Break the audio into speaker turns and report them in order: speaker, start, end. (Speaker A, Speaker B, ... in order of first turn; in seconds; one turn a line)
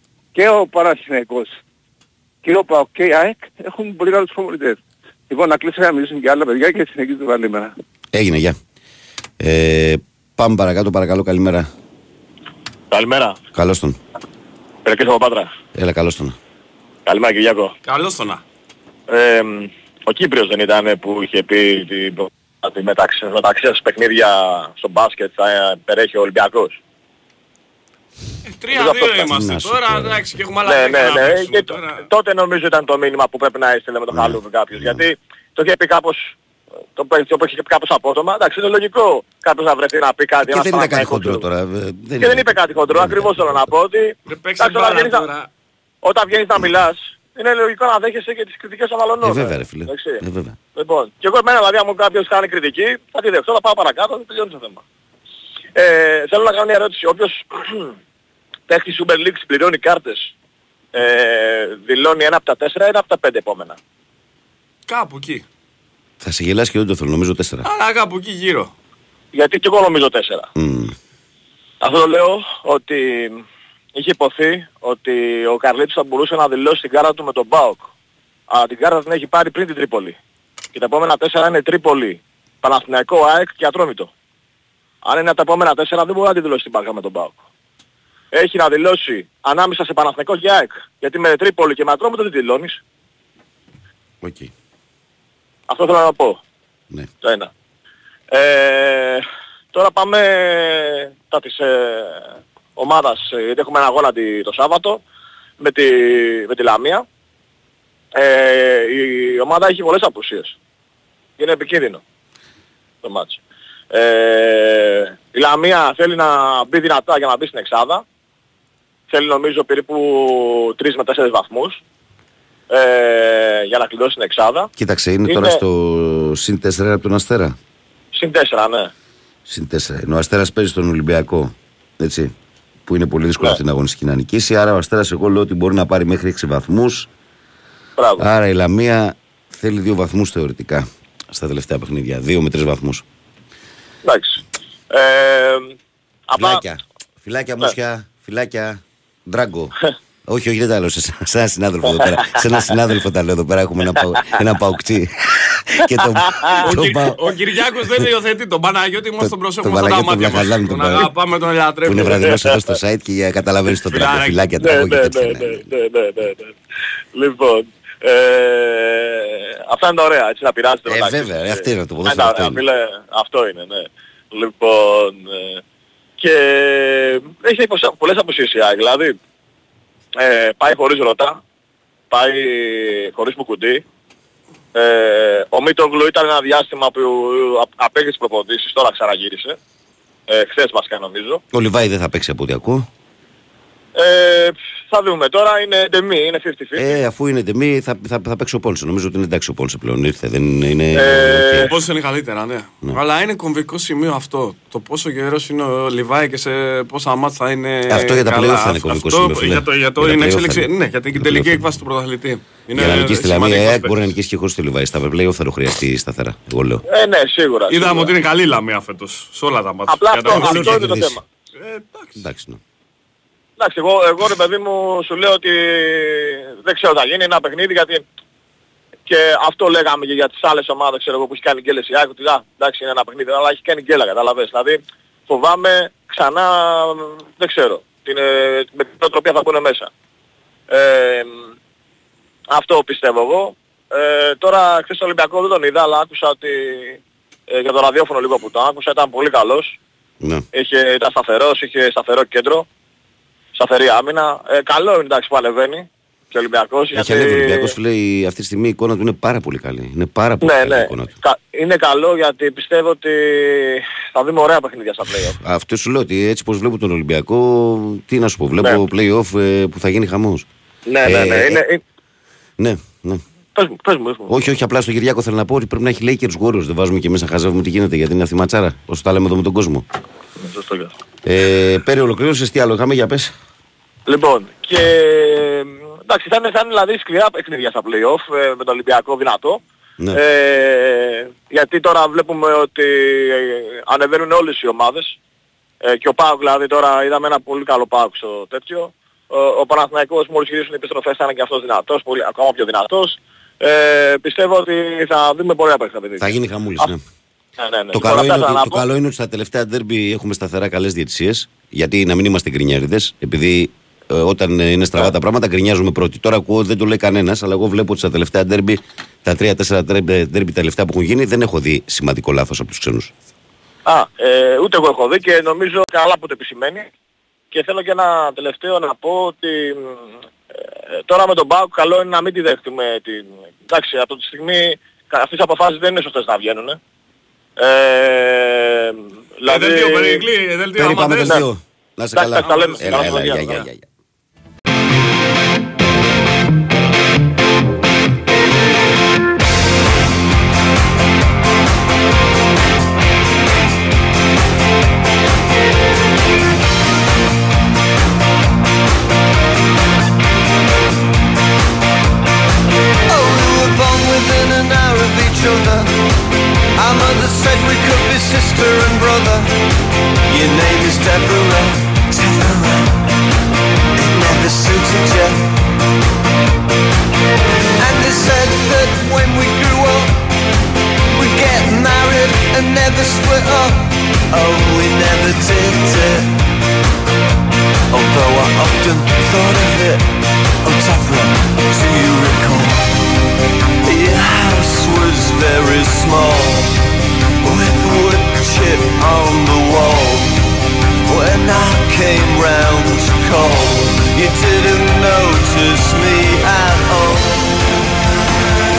Speaker A: 0.3-1.6
Speaker A: 2.4-4.8
Speaker A: 5.3-7.7
Speaker B: 8.1-8.6
Speaker B: 9.4-11.7
Speaker C: 12.9-13.4
Speaker B: 13.5-14.0
Speaker C: 14.8-15.5
Speaker B: 15.7-16.4
Speaker C: 17.1-17.8
Speaker D: 17.9-18.4
Speaker C: 19.1-26.8
Speaker D: 28.5-32.0
Speaker C: 28.7-29.3
Speaker B: 29.3-30.2
Speaker C: 30.7-36.3
Speaker B: 34.1-35.0
Speaker C: 37.0-41.4
Speaker B: 40.5-43.7
Speaker C: 42.2-45.3
Speaker D: 44.3-45.5
Speaker C: 46.0-50.2
Speaker B: 49.2-50.6
Speaker C: 50.8-54.8
Speaker C: 55.8-57.9
Speaker C: 58.7-60.3
Speaker C: 60.9-63.8
Speaker D: 64.9-65.4
Speaker B: 66.2-67.7
Speaker D: 67.6-68.7
Speaker C: 69.3-70.5
Speaker B: 70.6-71.0
Speaker C: 71.8-73.4
Speaker C: 74.0-77.9
Speaker C: 78.5-80.2
Speaker C: 80.7-84.1
Speaker C: 85.0-87.4
Speaker C: 88.3-92.8
Speaker B: 94.2-94.5
Speaker C: 95.7-96.4
Speaker C: 97.2-97.5
Speaker C: 98.3-105.0
Speaker C: 105.6-107.0
Speaker C: 108.2-110.6
Speaker C: 111.4-112.0
Speaker C: 113.0-113.4
Speaker C: 113.9-118.0
Speaker C: 119.1-121.8
Speaker C: 122.7-124.7
Speaker B: 124.8-127.6
Speaker C: 125.3-125.6
Speaker C: 128.1-128.9
Speaker B: 129.5-132.3
Speaker B: 132.9-137.1
Speaker C: 138.0-138.3
Speaker B: 138.2-143.0
Speaker C: 144.0-145.8
Speaker C: 146.3-146.6
Speaker B: 146.3-149.7
Speaker B: 150.3-155.2
Speaker B: 155.7-157.2
Speaker D: 156.6-162.3
Speaker B: 159.2-161.1
Speaker B: 161.8-165.7
Speaker C: 162.3-162.5
Speaker D: 163.9-164.4
Speaker C: 164.6-166.6
Speaker C: 167.2-175.6
Speaker B: 170.9-172.6
Speaker C: 176.2-179.2
Speaker C: 180.2-181.4
Speaker C: 182.1-183.8
Speaker C: 184.7-189.6
Speaker C: 190.3-191.4
Speaker B: 191.5-192.9
Speaker C: 194.0-197.0
Speaker B: 196.8-201.7
Speaker C: 200.9-201.7
Speaker D: 201.7-214.0
Speaker B: 207.9-211.7
Speaker B: 212.8-216.8
Speaker C: 216.9-218.1
Speaker D: 217.7-220.9
Speaker C: 219.9-221.2
Speaker B: 220.3-221.2
Speaker D: 221.6-222.2
Speaker B: 222.2-222.6
Speaker C: 223.6-228.1
Speaker C: 229.1-239.9
Speaker C: 240.7-241.5
Speaker C: 242.5-249.8
Speaker C: 250.5-252.7
Speaker C: 253.5-257.7
Speaker B: 256.9-261.2
Speaker C: 260.4-265.4
Speaker B: 265.4-270.5
Speaker C: 270.9-271.8
Speaker B: 271.0-271.6
Speaker B: 272.6-273.2
Speaker C: 273.6-274.4
Speaker B: 274.3-279.9
Speaker C: 280.4-280.9
Speaker B: 281.2-283.3
Speaker C: 284.1-289.6
Speaker C: 290.1-295.2
Speaker C: 295.8-306.8
Speaker B: 306.2-307.0
Speaker C: 307.6-308.9
Speaker B: 307.9-323.1
Speaker C: 323.9-326.9
Speaker C: 327.5-330.0
Speaker C: 330.9-336.8
Speaker C: 337.6-340.2
Speaker D: 339.4-341.4
Speaker B: 340.8-343.9
Speaker C: 342.1-343.6
Speaker D: 342.4-343.6
Speaker E: 363.1-365.9
Speaker E: 366.8-369.5
Speaker E: 370.3-373.1
Speaker E: 374.0-375.5
Speaker E: 377.8-380.2
Speaker E: 381.1-386.4
Speaker E: 387.9-392.9
Speaker E: 393.8-396.8
Speaker E: 397.4-400.4
Speaker E: 401.1-407.7